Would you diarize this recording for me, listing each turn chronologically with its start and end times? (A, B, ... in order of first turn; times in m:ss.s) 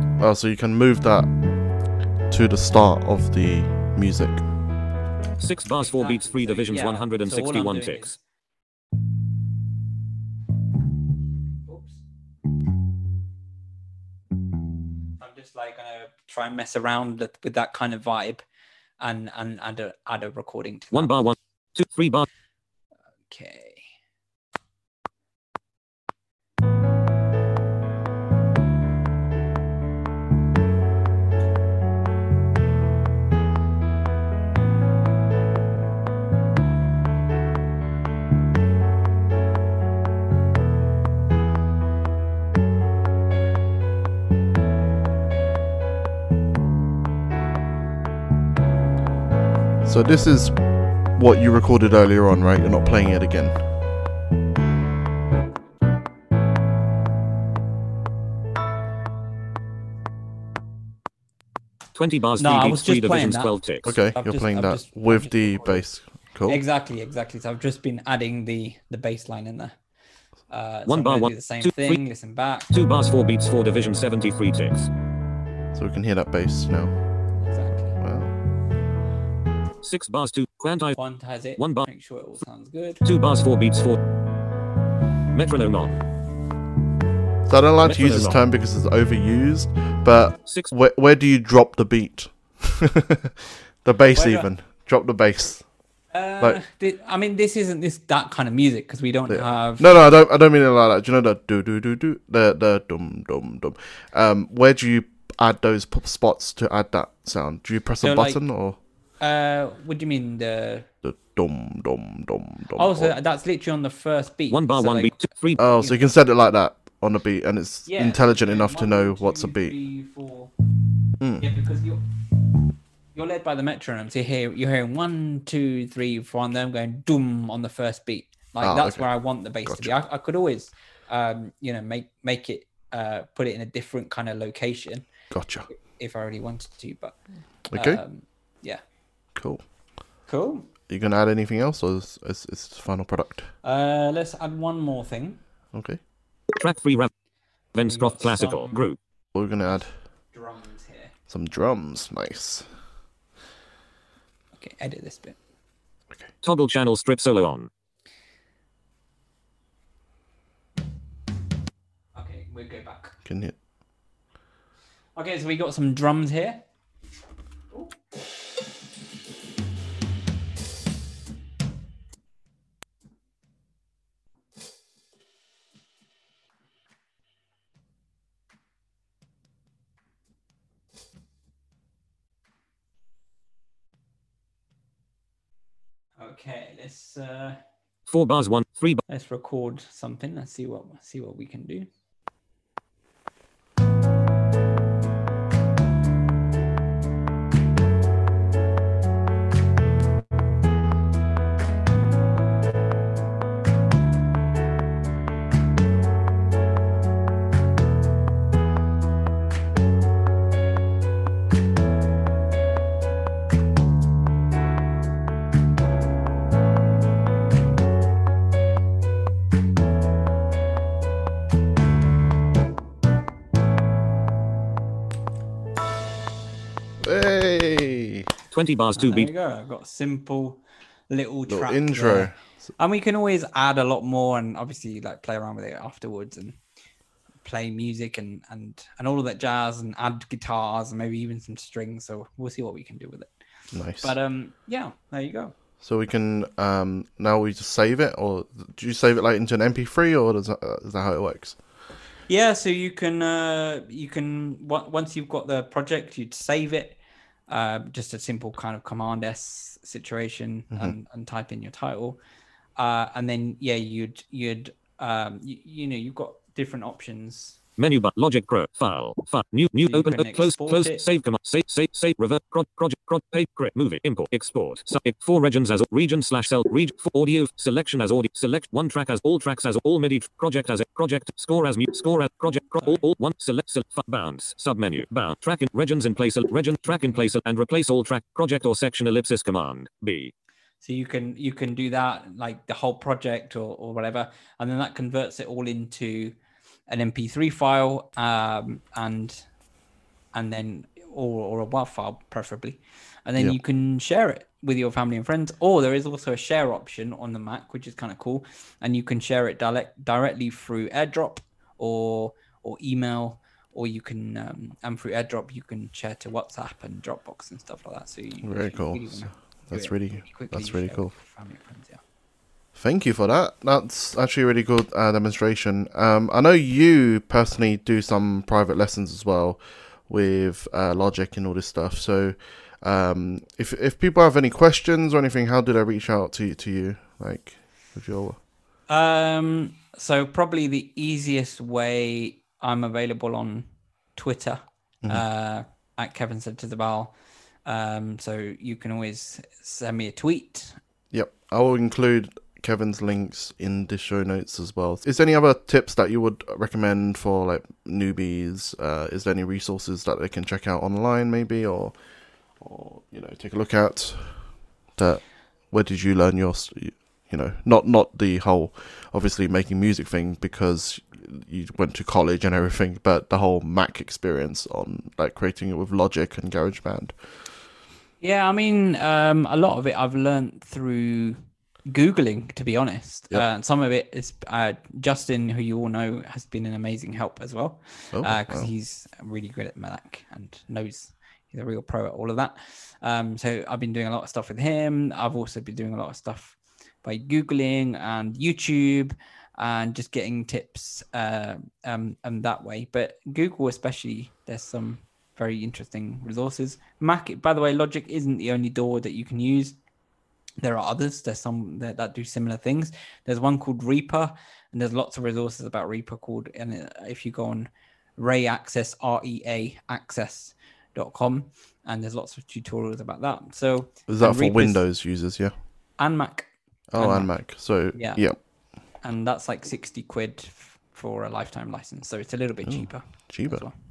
0:00.2-0:01.3 A
0:02.3-0:04.4 A
0:05.4-0:08.2 B
0:05.8-0:08.2 C
0:11.6-0:12.0 C
0:15.2-0:18.4 C
0:19.0-0:21.2 C
0:20.9-0:22.3 B
0:23.3-0:23.9 C
0:49.8-0:50.6 A
0:51.1-0:53.6 A
1:02.0-1:03.9 B
1:02.4-1:05.9 C
1:03.8-1:06.6 A
1:06.5-1:09.8 C
1:10.5-1:12.7 C
1:10.9-1:12.0 B
1:12.7-1:14.9 B
1:15.7-1:16.9 A
1:17.4-1:18.0 C
1:18.0-1:18.3 A
1:19.8-1:21.0 B
1:21.0-1:23.0 C
1:21.6-1:21.9 B
1:23.0-1:24.0 B
1:25.3-1:26.0 B
1:27.5-1:35.7 A
1:27.8-1:28.4 B
1:30.5-1:30.7 B
1:34.1-1:34.5 C
1:36.1-1:39.9 C
1:39.3-1:48.8 A
1:48.0-1:48.4 C
1:49.2-1:50.9 C
1:51.0-1:53.2 A
1:52.8-1:55.2 C
1:54.5-1:55.7 B
1:55.6-1:59.7 A
1:57.9-2:00.5 C
2:01.2-2:01.4 A
2:01.4-2:02.0 C
2:03.1-2:15.1 C
2:08.6-2:09.1 A
2:09.6-2:09.9 A
2:15.3-2:15.7 A
2:15.7-2:18.8 C
2:17.7-2:18.0 A
2:19.4-2:19.6 A
2:20.3-2:20.7 C
2:20.9-2:23.5 A
2:23.6-2:25.4 C
2:25.7-2:26.0 A
2:26.5-2:27.1 B
2:27.7-2:29.0 B
2:27.8-2:28.9 C
2:29.3-2:30.0 A
2:30.3-2:31.1 C
2:31.3-2:32.7 A
2:34.5-2:35.4 C
2:36.4-2:37.7 B
2:42.2-2:43.2 C
2:43.2-2:43.6 A
2:45.2-2:46.6 C
3:06.2-3:07.6 C
3:08.1-3:09.0 B
3:09.1-3:11.9 C
3:47.0-3:48.3 A
3:48.5-3:49.3 B
3:49.0-3:56.6 C
3:51.5-3:52.4 A
3:57.4-4:03.3 C
4:03.7-4:04.2 A
4:04.0-4:05.5 C
4:05.8-4:11.6 A
4:12.3-4:22.2 C
4:22.8-4:27.6 C
4:27.8-4:50.3 B
4:29.9-4:31.0 C
4:50.8-4:56.4 C
4:56.9-4:59.5 C
5:00.3-5:22.0 C
5:18.4-5:21.1 A
5:22.8-5:38.4 A
5:38.9-5:50.8 C
5:51.1-6:02.0 A
6:02.5-6:17.2 A
6:18.2-6:49.8 C
6:28.1-6:28.7 A
6:50.6-7:04.9 C
7:04.1-7:05.6 A
7:06.0-7:13.7 C
7:06.9-7:08.4 A
7:12.6-7:13.7 A